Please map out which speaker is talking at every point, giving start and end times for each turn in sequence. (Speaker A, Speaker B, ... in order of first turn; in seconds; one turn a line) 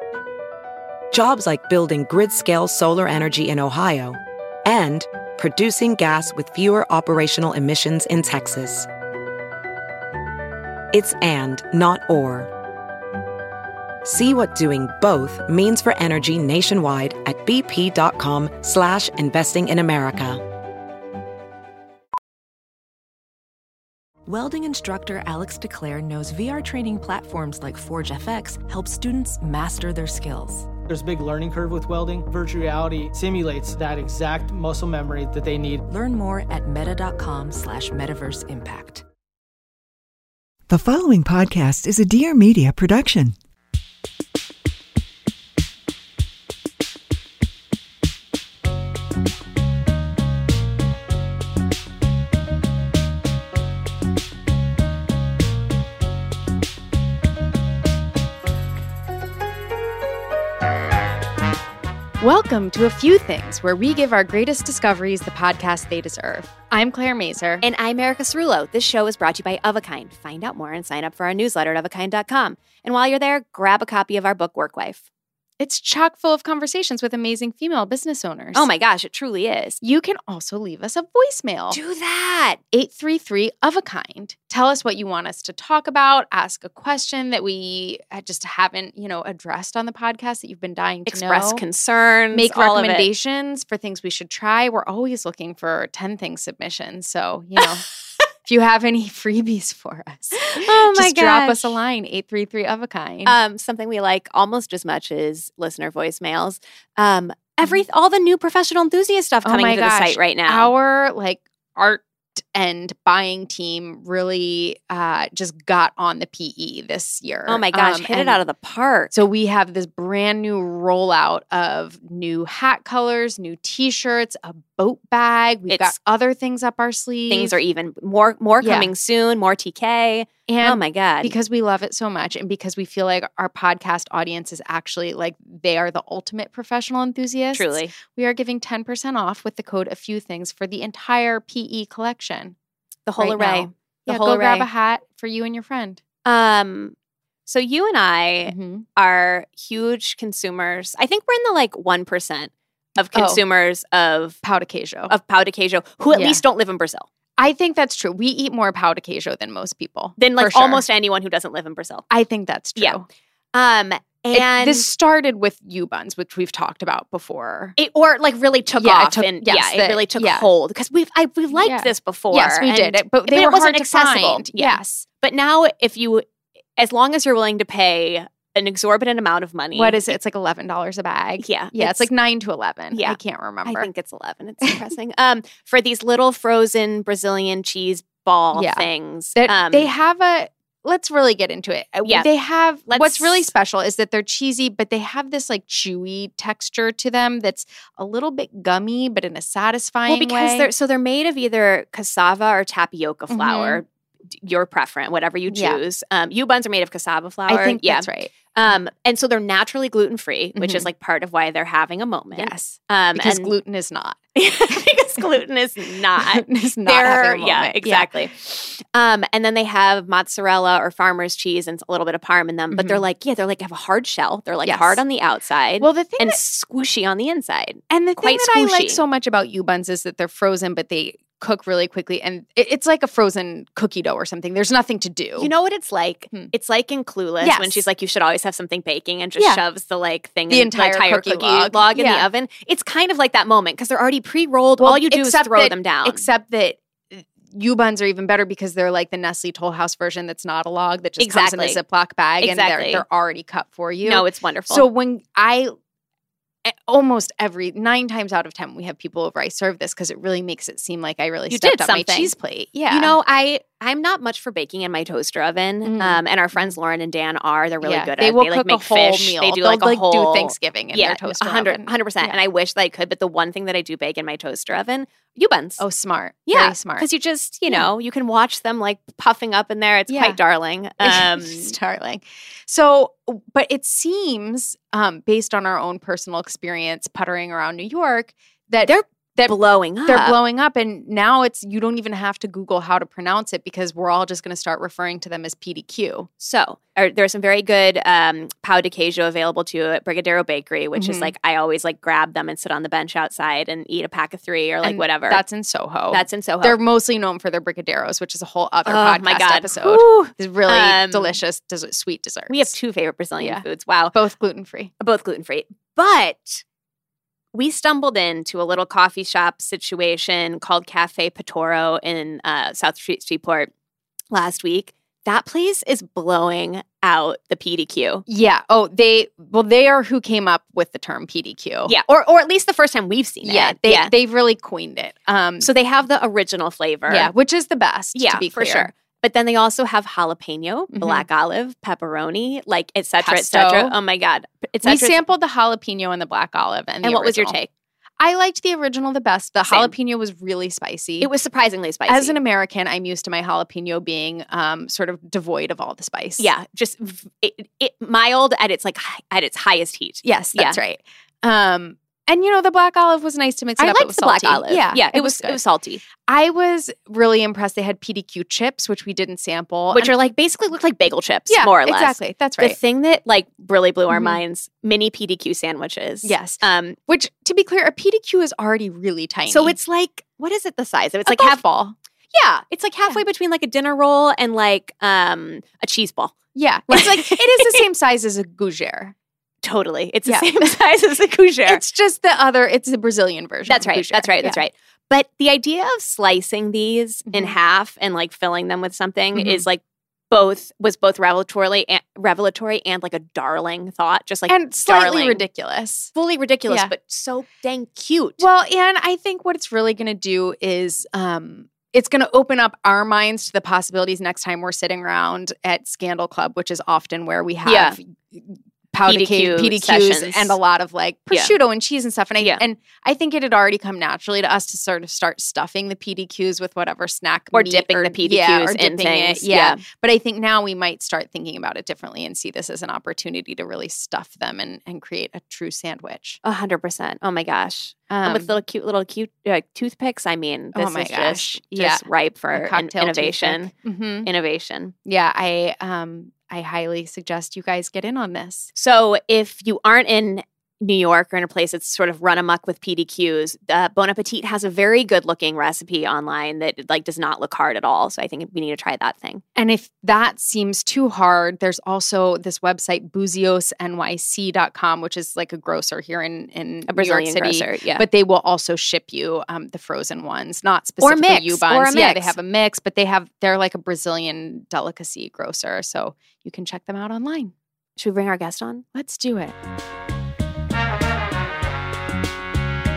Speaker A: 1.1-8.9
Speaker A: 10.9-12.5
Speaker A: 14.0-20.4
Speaker B: 24.2-30.7
Speaker C: 30.9-35.8
Speaker B: 35.9-39.0
Speaker D: 40.7-43.4
Speaker E: 62.2-67.6
Speaker F: 67.6-75.0
Speaker E: 75.6-78.7
Speaker F: 78.5-79.8
Speaker E: 79.8-81.8
Speaker F: 81.7-82.6
Speaker E: 82.7-91.6
Speaker F: 91.1-93.1
Speaker E: 92.3-97.8
Speaker E: 98.4-103.3
Speaker F: 100.6-101.8
Speaker F: 103.2-110.7
Speaker E: 109.4-118.4
Speaker F: 117.5-119.1
Speaker E: 119.1-127.6
Speaker F: 125.7-125.9
Speaker F: 127.3-131.3
Speaker E: 128.6-128.9
Speaker E: 130.5-142.5
Speaker F: 137.5-137.9
Speaker F: 143.1-144.7
Speaker E: 143.2-146.0
Speaker F: 146.2-146.9
Speaker F: 147.5-154.4
Speaker E: 148.5-148.8
Speaker E: 153.1-153.4
Speaker E: 154.4-155.1
Speaker F: 155.1-157.1
Speaker E: 156.1-156.4
Speaker E: 157.4-160.8
Speaker F: 160.2-162.1
Speaker E: 162.1-163.0
Speaker F: 163.5-164.8
Speaker E: 164.3-167.8
Speaker F: 167.8-176.2
Speaker E: 168.8-170.5
Speaker E: 171.5-175.0
Speaker F: 176.8-180.0
Speaker E: 179.7-183.9
Speaker F: 181.4-182.1
Speaker F: 182.9-189.9
Speaker E: 188.5-200.7
Speaker F: 192.9-193.5
Speaker F: 200.1-203.8
Speaker E: 203.3-203.8
Speaker F: 204.4-213.5
Speaker E: 205.5-205.8
Speaker E: 207.5-208.3
Speaker E: 210.6-210.9
Speaker E: 212.3-214.2
Speaker F: 214.3-229.0
Speaker E: 216.2-218.1
Speaker E: 222.7-223.0
Speaker E: 224.6-225.0
Speaker E: 225.8-226.4
Speaker E: 227.9-235.5
Speaker F: 235.4-246.2
Speaker E: 237.4-237.8
Speaker E: 240.5-242.3
Speaker E: 244.8-255.7
Speaker F: 251.2-251.8
Speaker F: 252.4-253.0
Speaker F: 254.1-254.9
Speaker E: 256.6-263.1
Speaker F: 261.5-262.3
Speaker F: 262.9-275.8
Speaker E: 265.8-266.8
Speaker E: 267.8-272.4
Speaker E: 275.8-277.1
Speaker F: 276.5-281.7
Speaker E: 280.1-280.4
Speaker E: 281.0-289.5
Speaker F: 288.8-290.4
Speaker E: 290.1-296.3
Speaker F: 296.4-305.4
Speaker E: 300.9-301.3
Speaker E: 304.8-312.7
Speaker F: 306.1-306.8
Speaker F: 308.9-311.4
Speaker F: 312.5-314.1
Speaker E: 313.4-314.9
Speaker F: 315.0-316.6
Speaker F: 317.5-323.7
Speaker F: 324.3-328.2
Speaker E: 328.2-331.9
Speaker F: 331.9-334.1
Speaker E: 333.4-335.7
Speaker F: 335.6-337.3
Speaker E: 337.1-338.9
Speaker F: 338.1-345.2
Speaker E: 340.9-341.2
Speaker E: 343.2-343.9
Speaker E: 344.8-347.7
Speaker F: 347.0-347.6
Speaker E: 348.2-351.3
Speaker F: 349.7-349.9
Speaker F: 351.2-352.4
Speaker E: 352.1-356.5
Speaker F: 356.4-360.8
Speaker E: 360.2-365.6
Speaker F: 363.8-366.0
Speaker E: 366.1-370.1
Speaker F: 369.9-377.0
Speaker E: 371.5-372.8
Speaker E: 374.1-374.4
Speaker E: 376.2-379.8
Speaker F: 379.5-381.6
Speaker E: 381.3-381.9
Speaker F: 382.3-386.4
Speaker E: 386.5-389.1
Speaker F: 386.9-387.8
Speaker F: 389.6-391.8
Speaker E: 390.2-390.6
Speaker E: 391.6-394.6
Speaker F: 393.7-405.4
Speaker E: 397.3-397.6
Speaker E: 399.3-399.6
Speaker E: 404.5-406.1
Speaker F: 406.1-408.4
Speaker E: 408.4-436.4
Speaker F: 417.6-418.0
Speaker F: 419.1-420.6
Speaker F: 427.5-429.8
Speaker F: 436.4-443.7
Speaker E: 438.1-438.5
Speaker E: 440.7-444.3
Speaker F: 444.2-444.9
Speaker E: 445.0-448.7
Speaker F: 448.7-459.4
Speaker E: 459.6-477.5
Speaker F: 466.9-468.1
Speaker F: 471.0-472.3
Speaker F: 478.0-478.8
Speaker E: 478.9-479.5